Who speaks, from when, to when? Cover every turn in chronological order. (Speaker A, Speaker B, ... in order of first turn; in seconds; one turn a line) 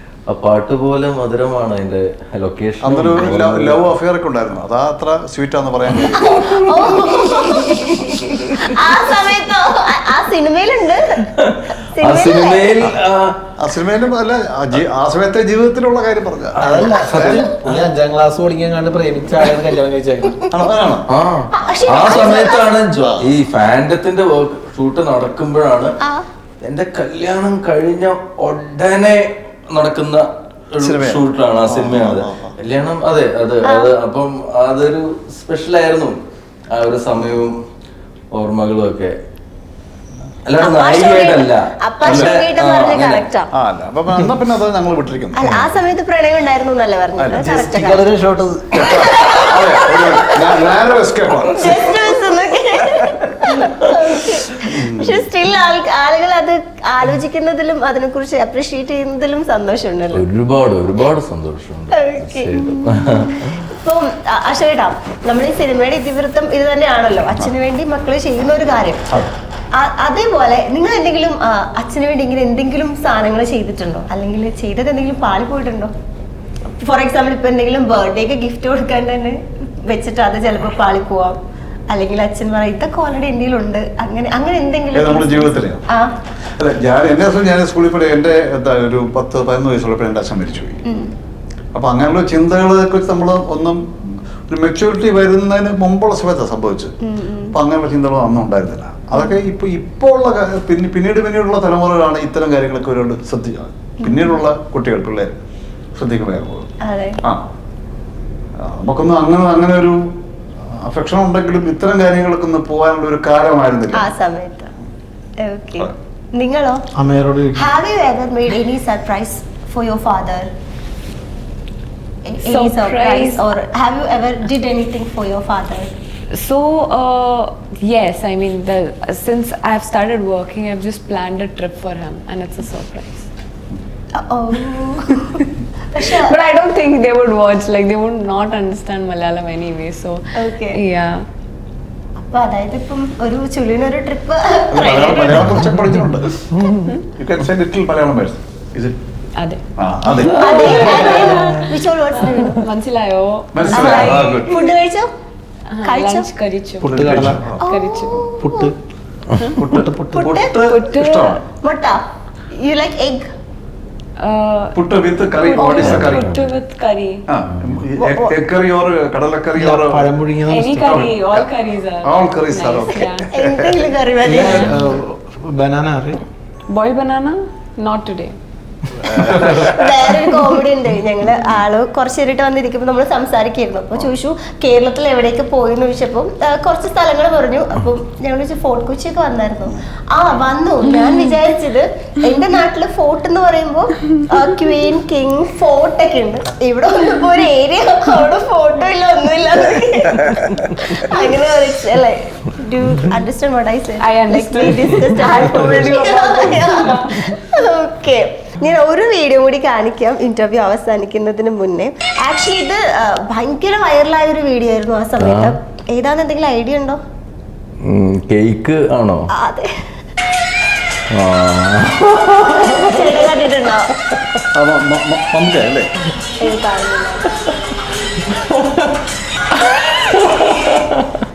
Speaker A: 0.3-3.9
Speaker B: 2.8-8.4
Speaker C: 6.2-11.3
Speaker A: 11.3-13.4
Speaker C: 11.9-12.8
Speaker B: 13.6-17.5
Speaker D: 16.6-20.5
Speaker A: 16.6-17.9
Speaker B: 20.5-21.1
Speaker A: 21.1-26.0
Speaker C: 21.5-22.7
Speaker A: 26.6-36.2
Speaker B: 30.8-32.5
Speaker A: 36.7-37.6
Speaker A: 38.3-39.1
Speaker A: 40.5-43.3
Speaker C: 40.6-43.5
Speaker B: 42.0-42.4
Speaker B: 43.5-45.7
Speaker C: 45.4-48.0
Speaker B: 47.2-47.6
Speaker D: 47.3-49.1
Speaker B: 48.7-52.0
Speaker C: 48.8-50.7
Speaker C: 51.5-60.2
Speaker B: 54.6-55.2
Speaker A: 60.1-63.6
Speaker C: 61.9-69.0
Speaker C: 69.7-75.9
Speaker C: 76.7-86.1
Speaker B: 84.9-85.8
Speaker B: 86.5-90.8
Speaker C: 90.9-91.1
Speaker B: 91.7-93.9
Speaker B: 94.5-96.9
Speaker C: 97.0-97.5
Speaker B: 97.5-105.4
Speaker C: 104.0-104.4
Speaker B: 106.0-107.5
Speaker C: 106.8-107.2
Speaker B: 108.6-110.1
Speaker B: 110.7-114.1
Speaker C: 113.9-114.7
Speaker C: 115.4-116.9
Speaker D: 117.0-117.7
Speaker C: 117.5-120.5
Speaker C: 122.3-125.9
Speaker E: 122.4-123.5
Speaker E: 126.3-133.3
Speaker C: 134.2-136.4
Speaker E: 136.0-141.2
Speaker C: 140.3-140.8
Speaker C: 142.2-145.6
Speaker B: 144.7-146.3
Speaker E: 146.6-147.1
Speaker B: 147.2-149.0
Speaker E: 149.4-149.6
Speaker B: 149.8-150.5
Speaker C: 150.3-152.6
Speaker A: 150.6-151.4
Speaker E: 151.4-154.5
Speaker B: 153.6-154.6
Speaker C: 153.7-155.1
Speaker E: 155.7-158.3
Speaker C: 155.8-156.3
Speaker D: 156.8-157.5
Speaker B: 157.0-157.6
Speaker C: 157.6-158.7
Speaker D: 158.4-158.8
Speaker D: 159.4-160.4
Speaker C: 160.1-160.5
Speaker B: 160.2-161.4
Speaker E: 160.5-161.4
Speaker C: 161.6-162.0
Speaker C: 162.6-163.3
Speaker E: 164.2-164.8
Speaker B: 164.8-166.4
Speaker E: 165.3-167.3
Speaker A: 165.8-166.5
Speaker B: 167.3-170.2
Speaker A: 167.5-167.8
Speaker C: 168.0-168.3
Speaker D: 169.6-171.1
Speaker E: 170.5-173.3
Speaker B: 170.8-171.5
Speaker B: 172.0-173.8
Speaker C: 173.3-174.7
Speaker D: 174.2-176.2
Speaker E: 176.7-178.4
Speaker D: 179.0-179.8
Speaker B: 179.1-179.9
Speaker C: 179.6-217.0
Speaker E: 204.0-207.5
Speaker A: 215.2-215.6
Speaker A: 217.8-219.3
Speaker C: 219.3-219.9
Speaker A: 221.1-223.2
Speaker C: 222.5-223.9
Speaker B: 224.5-225.9
Speaker C: 226.4-227.5
Speaker A: 228.3-229.0
Speaker C: 229.6-230.8
Speaker A: 230.2-231.1